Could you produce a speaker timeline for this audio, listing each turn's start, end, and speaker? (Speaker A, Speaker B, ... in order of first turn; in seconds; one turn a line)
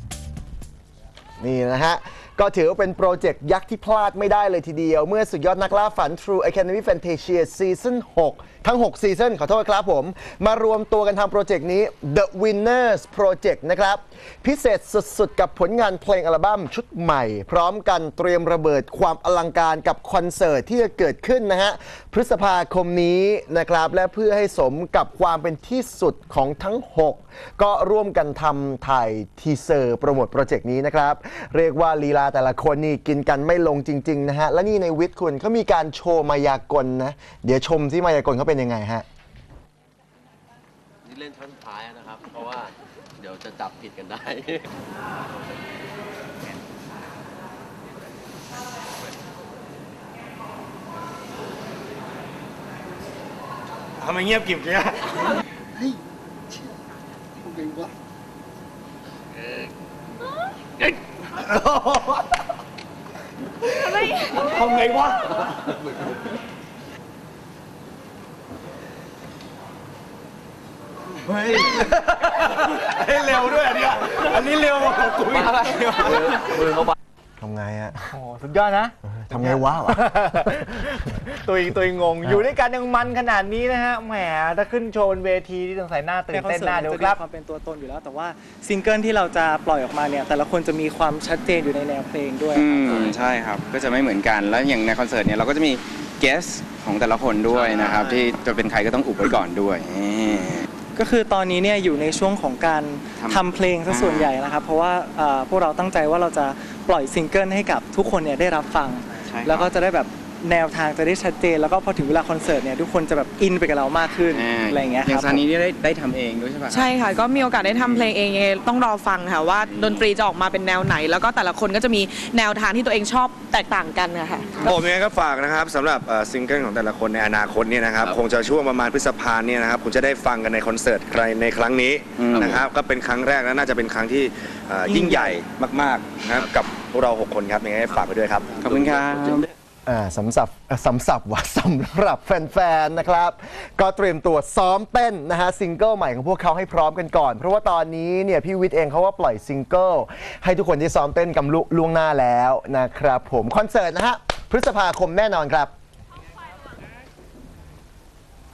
Speaker A: 1.4-39.0
Speaker B: 41.0-44.6
Speaker C: 64.4-65.1
Speaker C: 71.4-76.7
Speaker A: 77.4-78.1
Speaker C: 78.1-87.2
Speaker A: 79.1-80.8
Speaker D: 86.3-92.9
Speaker E: 92.5-100.7
Speaker D: 100.9-115.4
Speaker E: 103.2-104.3
Speaker E: 109.2-109.7
Speaker E: 114.3-118.1
Speaker F: 116.7-124.7
Speaker E: 119.7-120.1
Speaker G: 124.6-138.5
Speaker E: 132.2-132.6
Speaker D: 134.9-135.2
Speaker E: 138.6-139.4
Speaker B: 138.6-139.5
Speaker A: 139.8-155.7